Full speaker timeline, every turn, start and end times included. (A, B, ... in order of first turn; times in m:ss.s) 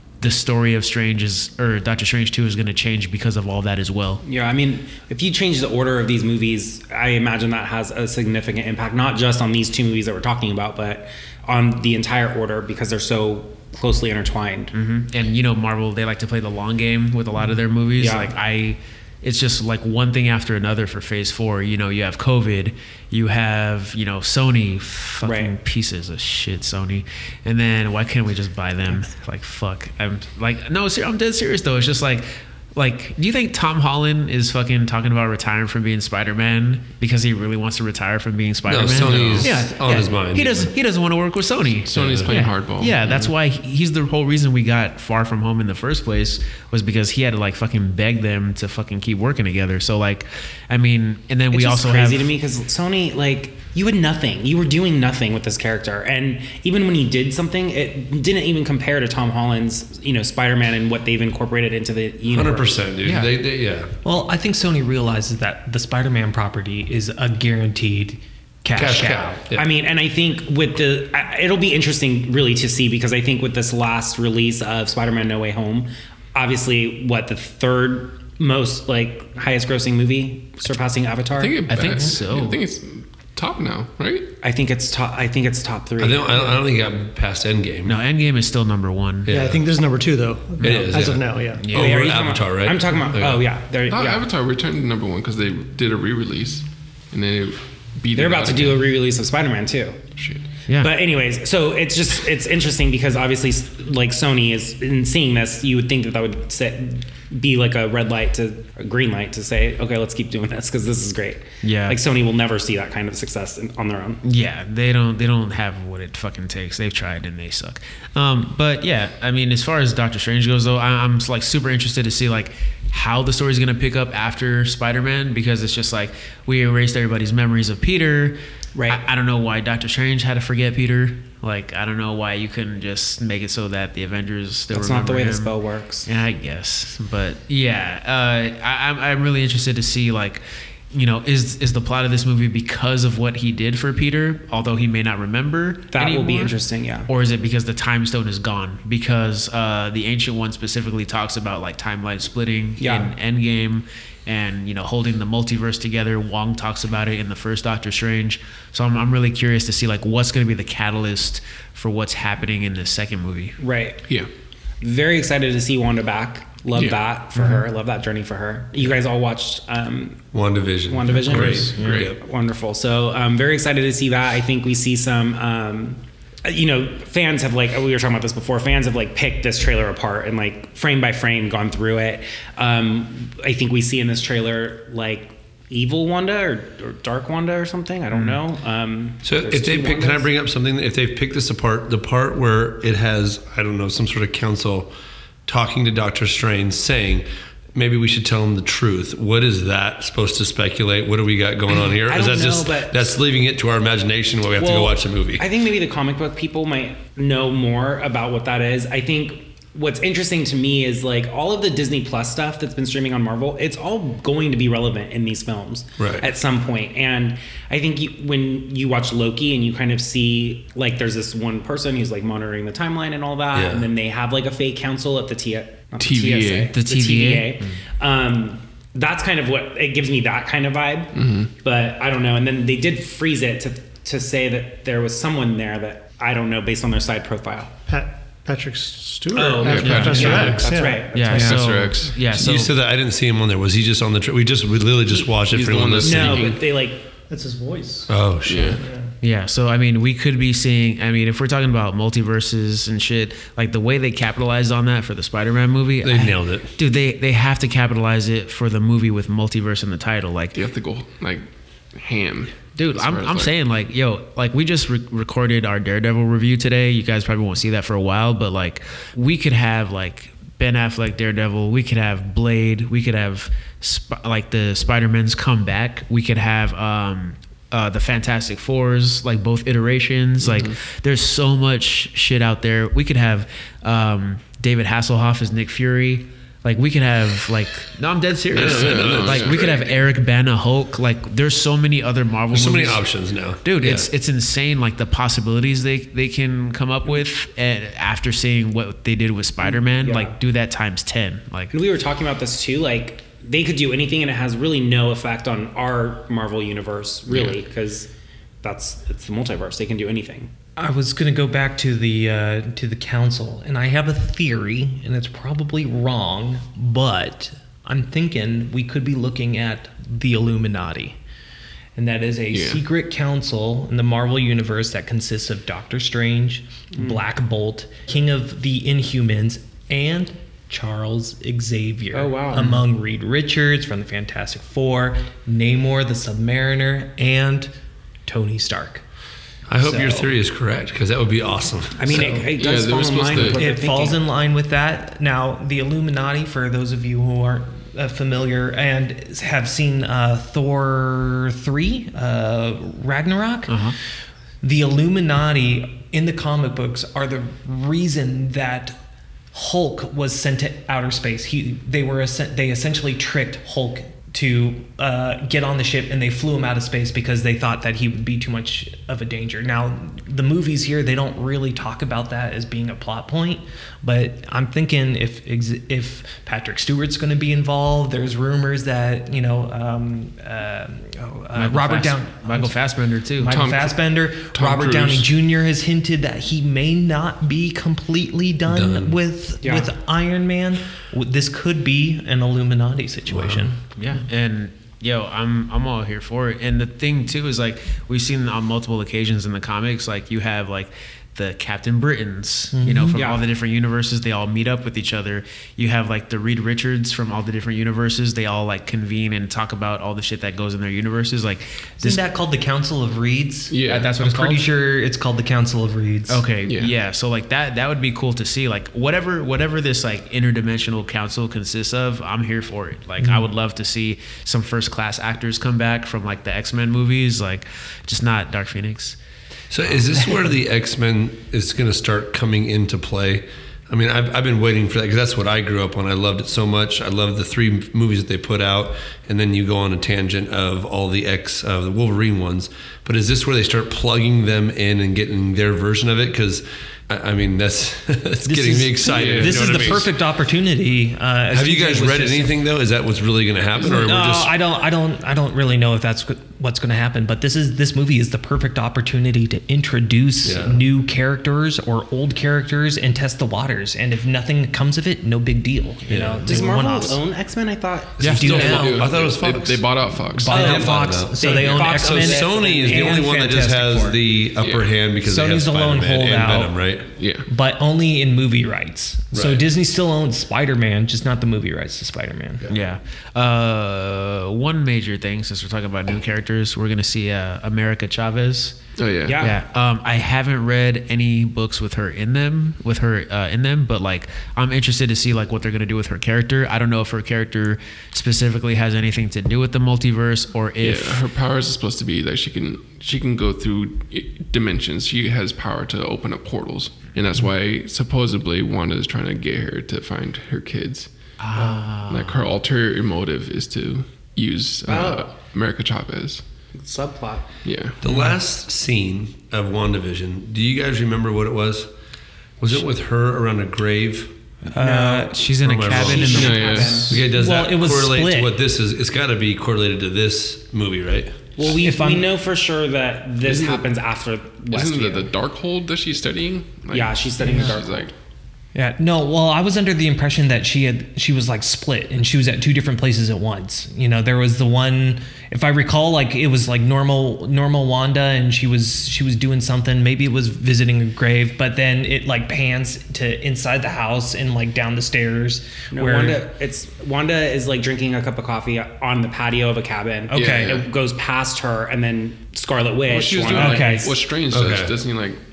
0:00.2-0:04.2 A
0:04.2-0:14.7 B
0:14.7-0:52.3 A
0:18.0-0:18.3 B
0:25.2-0:25.5 B
0:38.7-0:40.7 C
0:41.8-0:43.0 D
0:42.0-0:42.4 C
0:51.5-1:02.9 B
1:02.3-1:03.9 C
1:03.1-1:03.3 E
1:04.0-1:09.4 E
1:08.8-1:09.7 C
1:09.6-1:21.6 B
1:21.3-1:24.3 D
1:21.7-1:22.6 A
1:24.4-1:26.6 B
1:26.0-1:28.0 C
1:27.8-1:29.3 A
1:29.3-1:29.7 C
1:29.3-1:31.7 F
1:30.6-1:33.4 C
1:31.6-1:32.1 A
1:31.7-1:34.3 B
1:33.9-1:38.9 D
1:38.2-1:40.0 B
1:40.2-1:40.4 D
1:40.7-1:41.0 A
1:40.8-1:54.2 B
1:51.6-1:52.0 A
1:54.2-2:15.6 A
2:08.8-2:09.0 B
2:14.7-2:16.1 B
2:16.1-2:26.6 A
2:25.9-2:27.1 B
2:27.1-2:43.6 A
2:32.8-2:33.1 B
2:43.6-2:44.0 B
2:44.8-2:50.2 B
2:46.8-2:47.0 D
2:47.4-2:47.6 A
2:50.3-2:52.2 C
2:50.9-3:10.3 B
2:51.3-2:52.1 D
3:09.2-3:14.9 C
3:15.5-3:25.5 C
3:22.0-3:23.1 B
3:24.6-3:57.7 B
3:36.0-3:36.3 C
3:43.5-3:43.9 C
3:46.0-3:46.7 D
3:46.7-3:47.8 A
3:51.1-3:51.5 D
3:57.9-4:01.3 F
3:59.3-4:01.2 B
3:59.6-4:02.2 D
3:59.8-4:02.7 A
4:01.3-4:01.6 E
4:02.3-4:06.6 C
4:05.5-4:06.6 D
4:06.0-4:07.0 B
4:07.3-4:08.1 F
4:08.1-4:08.8 C
4:08.4-4:08.8 D
4:08.8-4:09.1 F
4:09.2-4:20.6 A
4:16.0-4:16.7 C
4:20.5-4:23.5 D
4:22.8-4:53.1 A
4:40.5-4:40.7 D
4:48.5-4:50.0 C
4:48.6-4:49.6 D
4:52.5-4:54.1 C
4:53.6-5:01.7 A
4:59.6-5:00.3 B
5:01.7-5:08.1 B
5:08.6-5:10.5 B
5:10.8-5:21.2 E
5:22.0-5:37.7 E
5:22.5-5:22.8 D
5:26.9-5:27.2 B
5:32.1-5:32.8 B
5:38.3-5:39.0 E
5:39.7-5:42.3 C
5:39.8-5:40.3 E
5:42.0-5:44.2 B
5:42.1-5:42.6 E
5:42.2-5:43.6 D
5:43.3-5:53.8 E
5:53.7-5:54.0 A
5:54.6-5:59.0 E
5:59.5-6:22.7 E
6:21.5-6:23.5 A
6:23.4-6:33.8 E
6:23.5-6:25.3 D
6:28.7-6:29.2 C
6:29.6-6:29.9 B
6:33.3-6:33.7 C
6:34.0-6:52.2 A
6:42.7-6:43.2 E
6:43.2-6:43.4 B
6:52.0-6:56.5 E
6:53.7-6:54.2 D
6:53.8-6:54.7 A
6:56.3-7:09.2 A
6:56.6-6:56.9 D
7:09.7-7:30.1 C
7:28.4-7:32.5 E
7:29.1-7:30.0 D
7:31.5-7:34.5 C
7:33.8-7:47.2 E
7:40.4-7:40.8 C
7:46.1-7:46.6 C
7:46.4-7:48.5 B
7:48.2-7:49.9 C
7:48.2-7:49.1 E
7:48.2-7:51.0 D
7:50.3-7:54.2 E
7:50.5-7:57.1 C
7:50.5-7:53.3 B
7:54.6-7:55.0 D
7:55.2-7:56.8 E
7:57.2-7:57.5 D
7:57.5-8:02.6 E
7:59.3-7:59.7 C
8:02.7-8:08.8 A
8:09.0-8:09.5 D
8:09.2-8:09.6 B
8:09.4-8:21.2 A
8:20.8-8:31.1 D
8:31.4-8:32.5 A
8:32.0-8:36.4 D
8:34.9-8:35.4 B
8:36.8-8:37.5 B
8:37.6-8:38.0 D
8:38.0-8:41.9 C
8:38.1-8:38.3 E
8:42.6-8:44.4 C
8:44.7-8:45.4 E
8:44.8-8:47.1 A
8:45.6-8:46.5 C
8:45.9-8:47.2 B
8:46.2-8:47.2 D
8:46.9-8:48.6 E
8:47.0-8:51.4 C
8:51.6-8:55.3 B
8:51.6-8:52.3 E
8:53.4-8:53.9 D
8:54.7-8:58.1 D
8:56.9-8:58.1 B
8:57.4-8:57.8 E
8:58.8-9:16.4 E
9:15.9-9:24.2 B
9:20.3-9:20.8 E
9:20.3-9:20.9 D
9:23.1-9:25.4 D
9:23.5-9:24.1 E
9:24.5-9:25.0 C